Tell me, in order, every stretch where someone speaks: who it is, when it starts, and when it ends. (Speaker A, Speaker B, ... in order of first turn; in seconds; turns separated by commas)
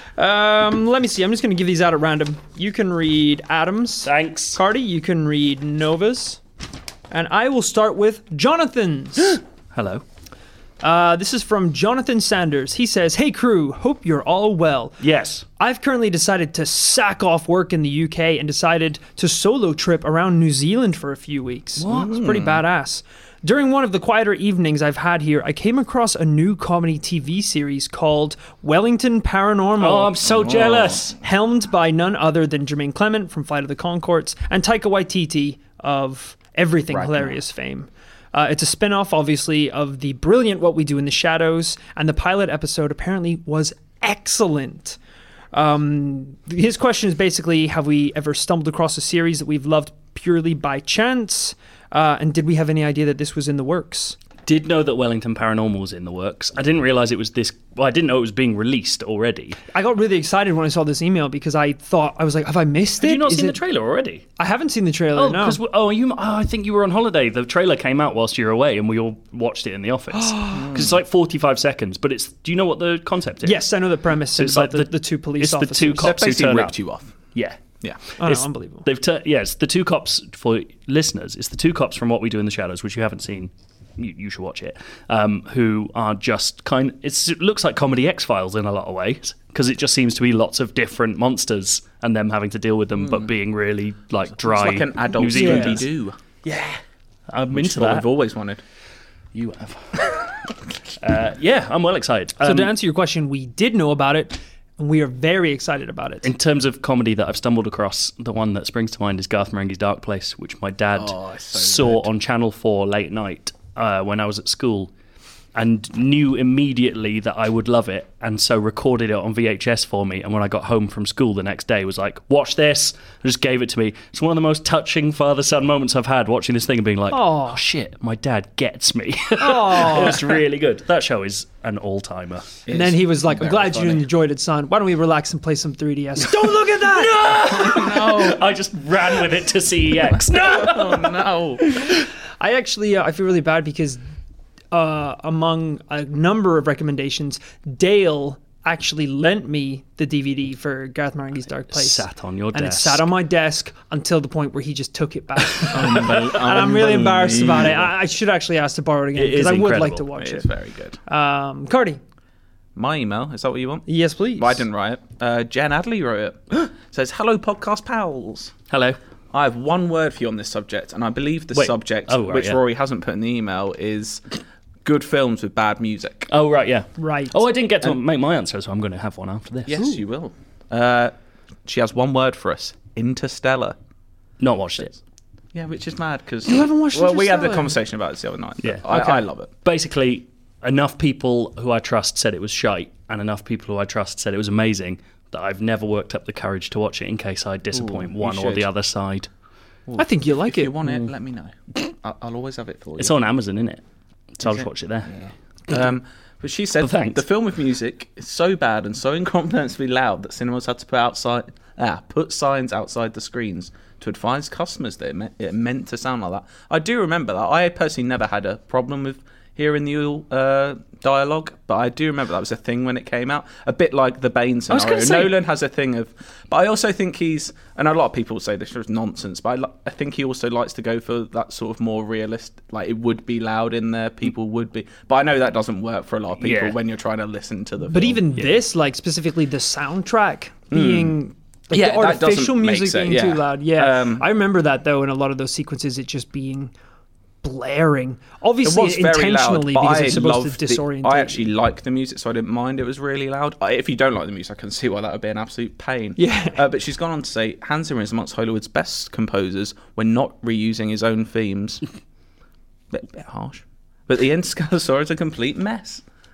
Speaker A: 0.1-6.4, Speaker B: 4.0-4.6, Speaker A: 7.1-9.4, Speaker B: 9.3-10.0, Speaker A: 10.8-15.0, Speaker B: 15.0-15.4, Speaker A: 15.6-45.0, Speaker B: 21.8-22.1, Speaker C: 21.9-22.6, Speaker B: 29.8-31.2, Speaker C: 30.2-31.0, Speaker C: 36.9-37.4, Speaker A: 45.5-54.2, Speaker B: 54.5-59.6, Speaker A: 59.7-63.6, Speaker B: 63.0-64.2, Speaker A: 64.4-65.6, Speaker B: 65.1-73.7, Speaker A: 70.1-70.7, Speaker C: 70.5-71.0, Speaker A: 73.4-76.2, Speaker B: 74.3-76.8, Speaker C: 76.0-77.1, Speaker B: 77.3-77.6, Speaker B: 78.2-95.8, Speaker A: 78.2-78.8, Speaker C: 93.0-93.3, Speaker C: 94.4-96.2, Speaker A: 95.3-95.8, Speaker B: 96.4-96.8, Speaker B: 97.3-98.1, Speaker C: 97.5-98.6, Speaker B: 99.3-100.3, Speaker B: 101.0-102.7, Speaker A: 102.4-106.3, Speaker B: 106.2-114.9, Speaker C: 110.9-112.1, Speaker B: 115.5-132.6, Speaker A: 127.1-127.6, Speaker A: 129.4-130.4, Speaker C: 132.7-134.0, Speaker A: 132.7-137.4, Speaker B: 136.4-141.1, Speaker C: 137.2-138.5, Speaker C: 140.4-141.6, Speaker A: 141.7-144.0, Speaker A: 144.7-160.4, Speaker B: 151.7-153.1, Speaker C: 155.7-157.9, Speaker B: 155.8-156.1, Speaker B: 159.1-160.1, Speaker C: 160.2-161.0, Speaker A: 161.1-162.0, Speaker C: 162.8-168.5, Speaker A: 163.9-164.6, Speaker B: 168.7-169.0, Speaker C: 169.3-174.2, Speaker B: 171.5-172.6, Speaker C: 174.8-176.3, Speaker B: 176.3-180.0, Speaker A: 177.0-177.4, Speaker C: 179.7-181.1, Speaker C: 181.7-183.8, Speaker B: 184.4-184.9, Speaker C: 185.5-189.5, Speaker A: 186.5-187.8, Speaker B: 188.6-199.3, Speaker C: 197.7-198.7, Speaker C: 199.9-203.2, Speaker A: 200.0-200.7, Speaker B: 203.0-203.8, Speaker B: 204.4-205.1, Speaker C: 204.4-238.2, Speaker B: 206.8-207.2, Speaker B: 224.7-225.3, Speaker B: 236.4-236.8, Speaker A: 237.8-246.7, Speaker C: 240.7-241.2, Speaker C: 241.7-244.3, Speaker A: 247.4-251.5, Speaker C: 248.6-261.8, Speaker A: 256.2-256.6, Speaker C: 262.9-266.0